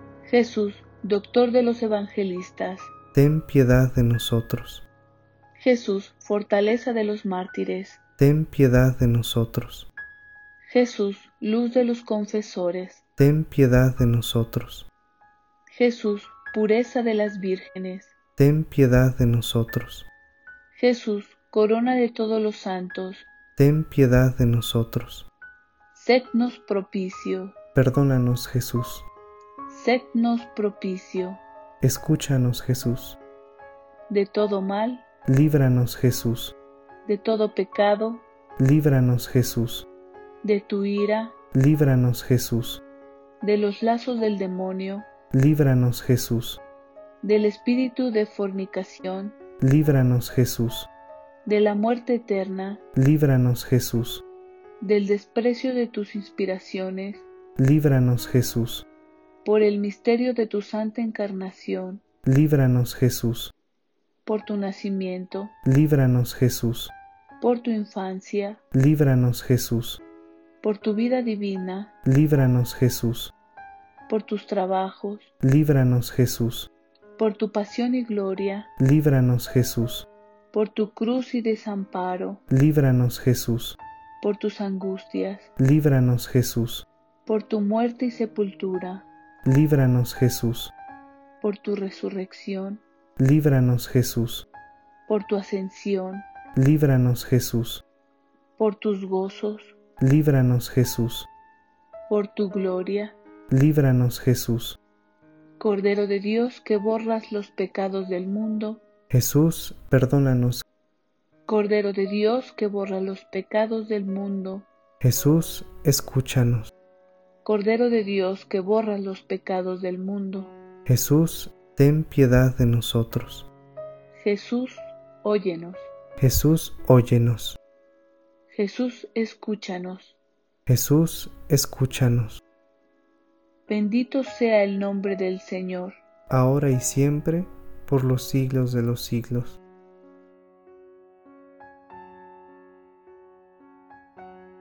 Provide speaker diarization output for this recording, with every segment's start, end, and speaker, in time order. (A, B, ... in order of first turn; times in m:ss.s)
0:00.2-0:02.9 A
0:03.1-0:04.8 B
0:05.6-0:08.0 A
0:08.2-0:09.9 B
0:10.7-0:13.0 A
0:13.2-0:14.9 B
0:15.7-0:18.1 A
0:18.4-0:20.1 B
0:20.7-0:23.3 A
0:23.6-0:25.3 B
0:25.9-0:27.5 A
0:27.7-0:29.1 B
0:29.7-0:31.4 A
0:31.8-0:33.2 B
0:34.1-0:35.0 A
0:35.3-0:36.5 B
0:37.0-0:38.2 A
0:38.6-0:39.8 B
0:40.4-0:41.3 A
0:41.5-0:42.8 B
0:43.4-0:45.0 A
0:45.3-0:46.6 B
0:47.2-0:49.3 A
0:49.6-0:50.9 B
0:51.4-0:52.8 A
0:52.9-0:54.2 B
0:54.8-0:57.2 A
0:57.6-0:58.8 B
0:59.4-1:02.0 A
1:02.2-1:03.5 B
1:04.2-1:05.5 A
1:05.6-1:06.9 B
1:07.4-1:08.6 A
1:08.7-1:10.0 B
1:10.6-1:11.9 A
1:12.0-1:13.3 B
1:14.1-1:15.3 A
1:15.4-1:16.7 B
1:17.2-1:18.7 A
1:18.8-1:20.1 B
1:20.5-1:22.4 A
1:22.5-1:23.8 B
1:24.2-1:25.5 A
1:25.6-1:26.8 B
1:27.3-1:29.1 A
1:29.4-1:30.7 B
1:31.4-1:32.8 A
1:33.2-1:34.4 B
1:35.1-1:36.2 A
1:36.5-1:37.8 B
1:38.6-1:39.7 A
1:40.0-1:41.3 B
1:42.1-1:43.2 A
1:43.5-1:44.8 B
1:45.6-1:48.8 A
1:49.1-1:50.6 B
1:51.5-1:54.7 A
1:55.0-1:56.7 B
1:57.4-2:00.5 A
2:00.9-2:03.5 B
2:04.1-2:05.9 A
2:06.2-2:07.6 B
2:08.5-2:10.1 A
2:10.7-2:12.4 B
2:13.7-2:16.0 A
2:16.3-2:19.6 B